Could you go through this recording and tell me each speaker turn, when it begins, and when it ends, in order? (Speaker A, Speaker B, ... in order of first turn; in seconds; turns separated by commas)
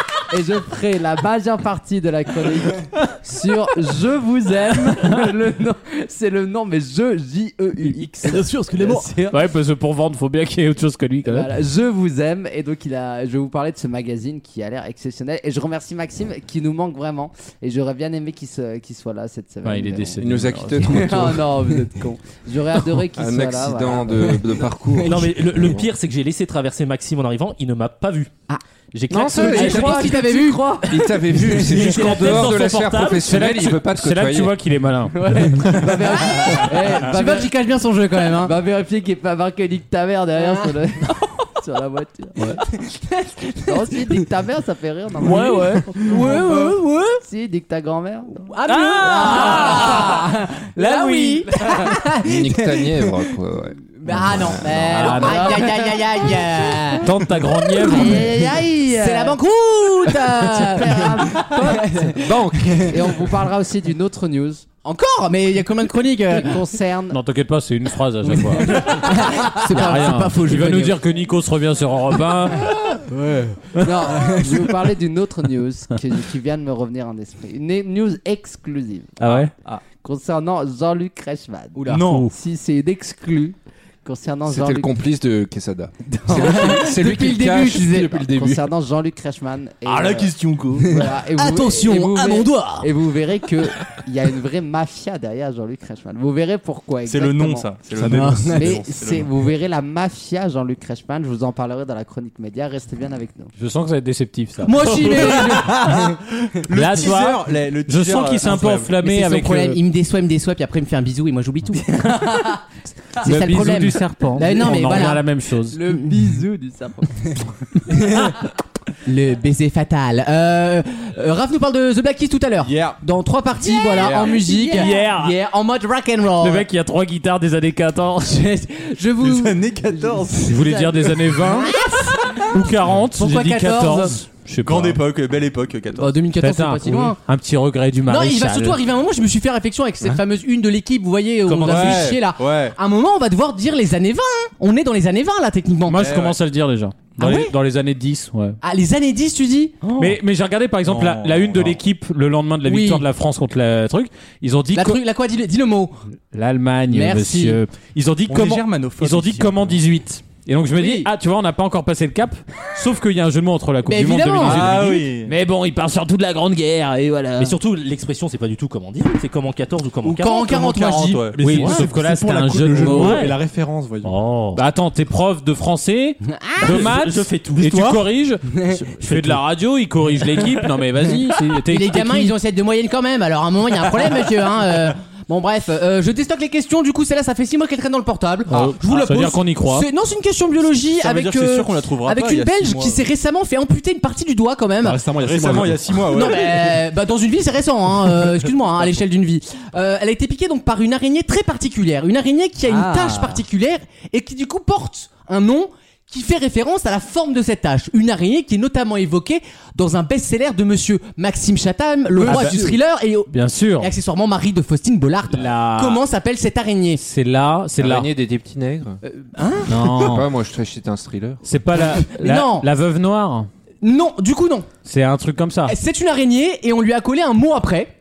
Speaker A: 0.3-9.4, Speaker B: 9.2-11.5, Speaker A: 11.2-25.1, Speaker B: 19.6-21.4, Speaker C: 20.2-21.6, Speaker C: 23.1-25.9, Speaker D: 25.0-28.3, Speaker D: 28.9-30.1, Speaker C: 29.1-30.1, Speaker E: 29.3-30.8, Speaker A: 29.5-30.8, Speaker B: 29.6-30.2, Speaker C: 30.9-34.5, Speaker D: 31.4-33.1, Speaker B: 31.9-36.5, Speaker E: 35.1-38.5, Speaker A: 35.3-37.5, Speaker A: 38.2-42.5, Speaker E: 43.1-43.9, Speaker A: 43.6-48.5, Speaker B: 45.2-46.1, Speaker E: 45.3-47.2, Speaker E: 48.5-52.3, Speaker B: 48.7-51.5, Speaker A: 49.3-50.0, Speaker A: 51.7-52.3, Speaker C: 52.2-55.2, Speaker E: 54.0-57.1, Speaker B: 54.9-55.7, Speaker A: 55.1-56.6, Speaker B: 57.0-58.3, Speaker A: 57.8-59.4, Speaker E: 57.9-58.3, Speaker E: 58.9-62.8, Speaker A: 60.1-62.1, Speaker C: 62.2-63.0, Speaker A: 62.9-64.7, Speaker E: 64.8-66.6, Speaker A: 66.3-67.2, Speaker B: 67.1-73.0, Speaker E: 68.3-71.0, Speaker F: 73.2-73.5, Speaker A: 73.8-79.3, Speaker B: 79.2-79.5, Speaker A: 79.9-85.0, Speaker E: 81.8-82.0, Speaker F: 81.9-82.3, Speaker C: 84.5-88.6, Speaker E: 86.2-88.2, Speaker A: 86.3-87.0, Speaker A: 87.7-97.7, Speaker F: 89.8-91.0, Speaker E: 91.4-92.8, Speaker F: 97.0-99.3, Speaker G: 97.9-98.8, Speaker E: 98.1-98.6, Speaker A: 98.5-103.5, Speaker B: 103.6-105.5, Speaker E: 104.6-106.0, Speaker F: 105.0-108.9, Speaker B: 106.7-109.8, Speaker E: 109.0-112.5, Speaker E: 113.2-115.2, Speaker B: 113.2-115.8, Speaker A: 115.7-118.2, Speaker E: 119.0-126.7, Speaker F: 122.6-123.0, Speaker A: 123.7-124.8, Speaker F: 123.9-124.5, Speaker B: 124.7-125.3, Speaker B: 126.4-128.5, Speaker E: 128.2-129.6, Speaker F: 129.2-130.7, Speaker B: 130.4-131.9, Speaker E: 131.6-132.4, Speaker B: 132.4-135.0, Speaker E: 133.1-134.2, Speaker F: 134.6-136.3, Speaker E: 135.9-137.2, Speaker B: 136.4-138.8, Speaker E: 138.1-146.1, Speaker D: 141.5-142.1, Speaker F: 141.6-142.7, Speaker B: 145.9-148.6, Speaker F: 146.0-146.4, Speaker E: 147.2-147.5, Speaker E: 148.6-150.2, Speaker B: 150.0-155.0, Speaker F: 150.8-151.8, Speaker E: 152.6-153.1, Speaker E: 154.7-156.0, Speaker B: 156.3-167.6, Speaker E: 156.9-157.6, Speaker F: 158.2-159.8, Speaker E: 160.8-161.1, Speaker E: 163.8-164.9, Speaker F: 164.4-165.3, Speaker D: 167.4-170.6, Speaker E: 170.0-171.8, Speaker F: 170.3-171.4, Speaker G: 171.3-174.1, Speaker B: 171.4-173.4, Speaker D: 172.8-173.4, Speaker D: 174.0-174.6, Speaker B: 174.5-182.3, Speaker E: 176.2-176.7, Speaker D: 176.6-178.0, Speaker D: 179.1-179.4, Speaker E: 181.7-195.0, Speaker B: 188.5-189.9, Speaker F: 190.8-193.0, Speaker G: 194.8-196.1, Speaker F: 195.1-196.8, Speaker E: 196.1-217.0, Speaker A: 202.7-203.4, Speaker B: 212.2-212.8, Speaker A: 212.3-212.6, Speaker B: 213.3-213.9, Speaker B: 215.3-216.0, Speaker B: 217.0-218.1, Speaker C: 217.8-219.0, Speaker E: 219.0-220.1, Speaker B: 219.7-220.3, Speaker C: 219.9-221.4, Speaker B: 221.4-223.5, Speaker E: 221.8-222.7, Speaker E: 223.8-224.7, Speaker B: 224.8-225.8, Speaker E: 225.7-227.9